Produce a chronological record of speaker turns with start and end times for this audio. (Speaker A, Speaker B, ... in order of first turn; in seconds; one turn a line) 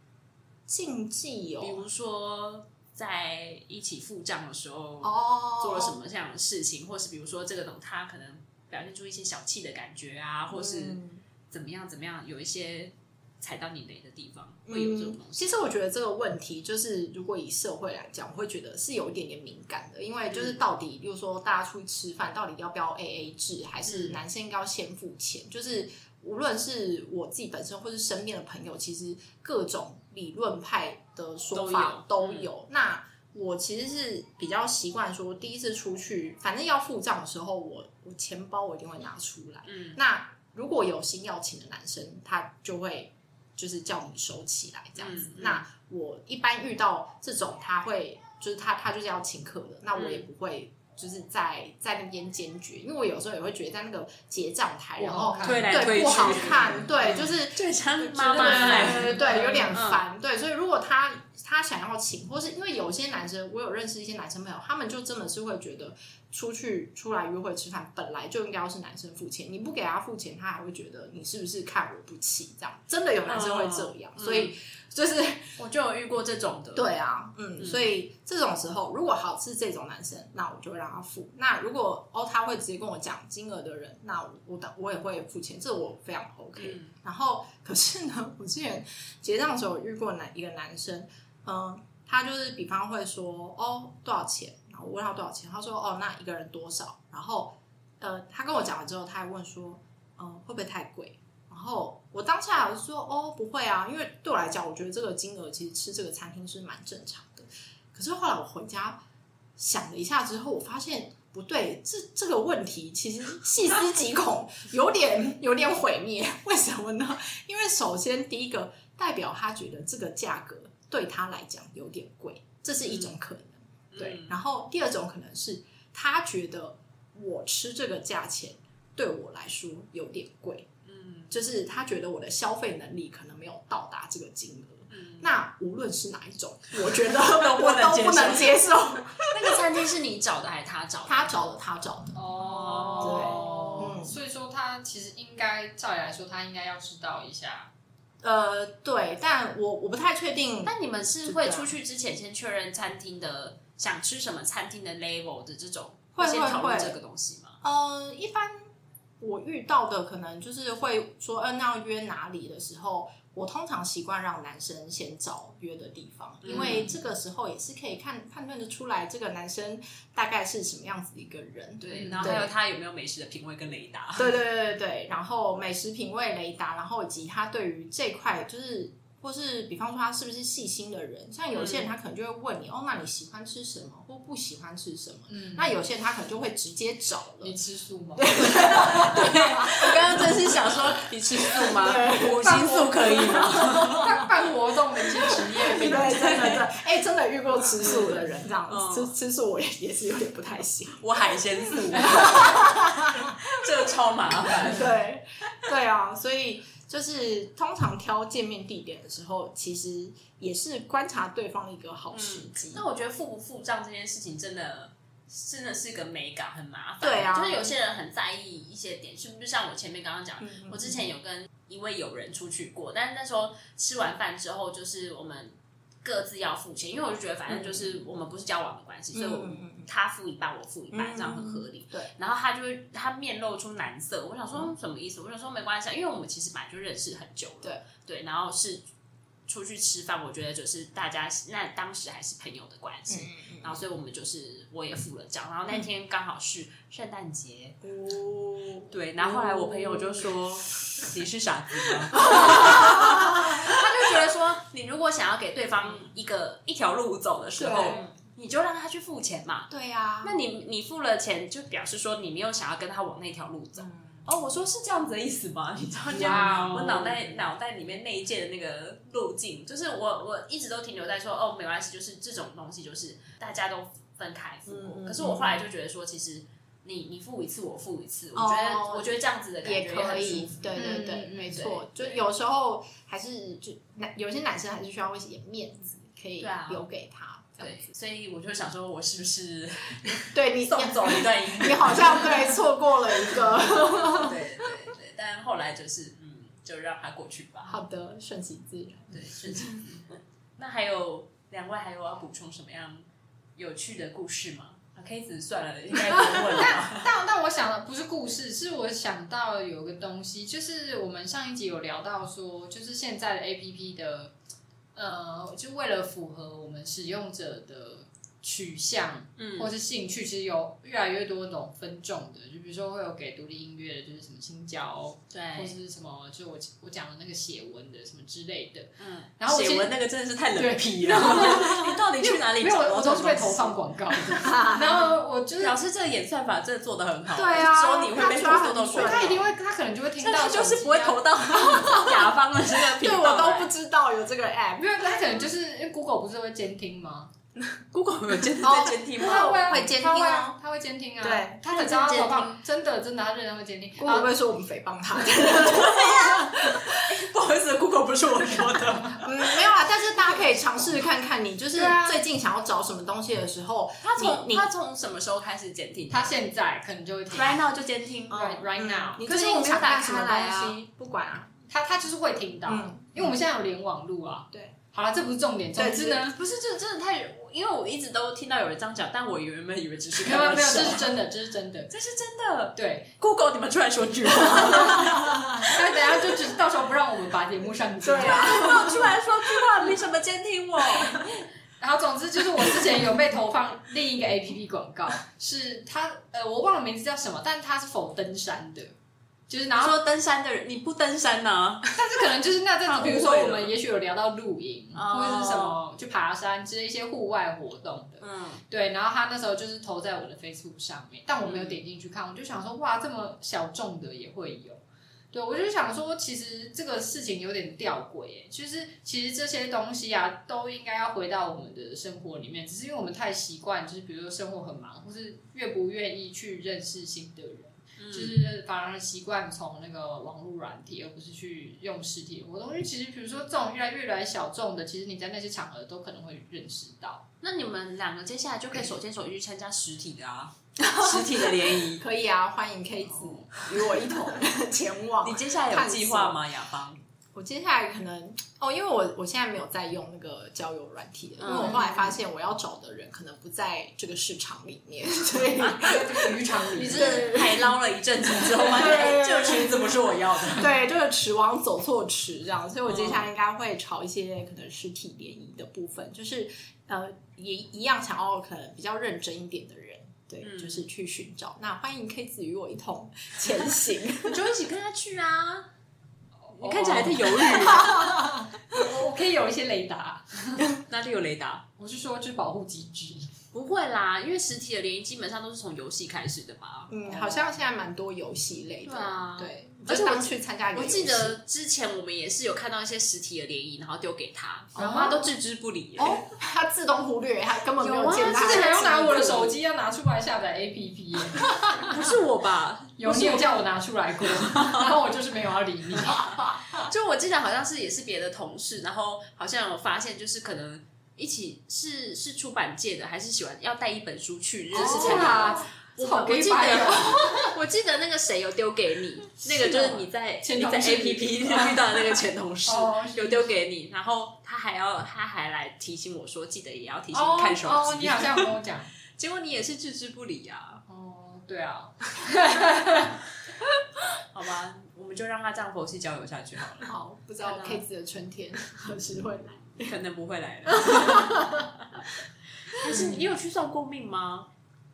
Speaker A: 0.7-1.9
Speaker B: 1.6-15.6
Speaker A: 5.0-6.0
Speaker A: 10.5-11.2
Speaker A: 14.7-75.5
Speaker B: 20.3-20.6
Speaker B: 23.9-24.2
Speaker B: 31.5-32.5
Speaker B: 39.6-40.0
Speaker B: 45.0-45.6
Speaker B: 49.9-50.2
Speaker C: 55.0-56.8
Speaker B: 55.4-60.0
Speaker C: 58.4-59.7
Speaker B: 73.2-74.5
Speaker B: 75.6-76.9
Speaker A: 76.7-109.0
Speaker B: 77.6-77.8
Speaker B: 86.6-86.9
Speaker A: 109.6-130.7
Speaker B: 122.8-123.1
Speaker B: 123.9-124.4
Speaker B: 130.8-131.3
Speaker A: 131.3-139.6
Speaker B: 134.9-135.3
Speaker B: 136.8-141.4
Speaker A: 141.1-144.2
Speaker C: 142.1-147.7
Speaker B: 142.4-143.9
Speaker A: 148.2-151.7
Speaker B: 150.6-157.6
Speaker A: 156.2-157.0
Speaker A: 157.6-158.7
Speaker A: 159.2-172.5
Speaker B: 166.4-167.0
Speaker B: 171.8-174.4
Speaker A: 174.2-187.5
Speaker B: 181.5-181.9
Speaker C: 185.3-185.7
Speaker C: 187.4-189.1
Speaker A: 188.2-190.8
Speaker B: 188.3-194.1
Speaker A: 191.3-194.2
Speaker C: 192.2-196.6
Speaker A: 195.7-201.0
Speaker B: 195.7-196.6
Speaker B: 197.8-199.2
Speaker B: 201.0-204.9
Speaker A: 201.7-203.4
Speaker A: 204.6-212.8
Speaker B: 212.1-238.8
Speaker A: 217.0-217.7
Speaker A: 220.4-221.1
Speaker A: 227.5-228.0
Speaker A: 229.1-229.9
Speaker A: 230.9-232.1
Speaker B: 239.5-247.8
Speaker A: 243.1-243.8
Speaker A: 247.8-250.3
Speaker B: 248.9-259.7
Speaker A: 252.1-253.8
Speaker A: 257.6-258.1
Speaker A: 259.7-260.4
Speaker B: 260.2-280.8
Speaker A: 263.8-264.2
Speaker A: 266.1-267.2
Speaker C: 266.2-267.1
Speaker A: 274.7-275.6
Speaker A: 278.3-287.9
Speaker C: 280.8-281.6
Speaker B: 281.5-282.2
Speaker B: 286.4-286.9
Speaker B: 287.6-292.6
Speaker A: 290.3-294.6
Speaker B: 293.2-297.8
Speaker A: 297.7-299.8
Speaker B: 299.1-303.0
Speaker B: 303.6-307.1
Speaker C: 306.4-314.3
Speaker C: 314.9-330.0
Speaker B: 319.4-319.7
Speaker B: 325.3-325.8
Speaker B: 329.0-334.4
Speaker C: 330.5-335.8
Speaker A: 334.4-335.0
Speaker B: 335.6-339.4
Speaker A: 337.3-339.5
Speaker C: 339.0-341.2
Speaker B: 340.2-343.7
Speaker A: 341.6-342.3
Speaker A: 342.9-345.4
Speaker C: 344.8-347.3
Speaker B: 347.9-349.8
Speaker A: 348.6-350.6
Speaker C: 349.2-354.3
Speaker A: 351.2-352.5
Speaker A: 354.0-357.1
Speaker B: 355.5-359.5
Speaker A: 359.2-364.7
Speaker C: 361.7-362.2
Speaker B: 364.0-366.3
Speaker C: 366.1-367.6
Speaker B: 367.3-368.7
Speaker C: 368.3-369.2
Speaker A: 368.4-371.5
Speaker B: 369.2-370.8
Speaker C: 371.7-376.4
Speaker A: 372.7-373.2
Speaker A: 375.8-376.2
Speaker B: 376.3-381.1
Speaker C: 380.2-381.9
Speaker B: 381.9-385.7
Speaker C: 382.8-383.1
Speaker C: 384.6-389.0
Speaker A: 385.1-385.6
Speaker A: 388.0-389.2
Speaker B: 388.2-391.5
Speaker C: 391.8-398.9
Speaker C: 399.5-400.0
Speaker B: 399.8-402.2
Speaker C: 402.0-414.8
Speaker B: 402.9-403.7
Speaker B: 404.9-405.8
Speaker B: 408.2-408.6
Speaker B: 411.4-411.8
Speaker C: 415.3-437.2
Speaker B: 428.0-428.4
Speaker B: 437.4-442.0
Speaker A: 440.9-446.4
Speaker B: 443.0-444.0
Speaker B: 445.2-447.0
Speaker A: 447.3-457.7
Speaker B: 451.4-451.9
Speaker C: 451.6-452.0
Speaker B: 455.6-455.8
Speaker C: 455.8-457.6
Speaker B: 456.8-460.8
Speaker A: 458.6-459.8
Speaker A: 460.5-474.4
Speaker B: 462.9-463.3
Speaker B: 470.4-470.9
Speaker B: 474.2-475.7
Speaker C: 476.4-480.7
Speaker B: 476.6-478.0
Speaker A: 477.6-478.8
Speaker B: 480.9-481.6
Speaker C: 481.8-483.3
Speaker B: 483.5-487.5
Speaker A: 486.9-491.4
Speaker B: 488.8-496.2
Speaker C: 494.8-495.2
Speaker A: 494.8-495.2
Speaker A: 496.0-499.5
Speaker B: 497.8-499.5
Speaker C: 498.2-502.0
Speaker B: 501.8-503.6
Speaker C: 503.0-506.9
Speaker B: 504.3-504.9
Speaker A: 506.1-506.6
Speaker B: 506.9-528.5
Speaker C: 514.7-517.5
Speaker A: 514.8-515.6
Speaker C: 519.4-523.5
Speaker C: 527.1-528.9
Speaker B: 529.2-530.8
Speaker C: 530.9-533.2
Speaker B: 534.3-537.9
Speaker A: 536.9-540.0
Speaker B: 539.8-542.0
Speaker A: 540.6-541.7
Speaker B: 542.7-544.5
Speaker A: 542.8-543.2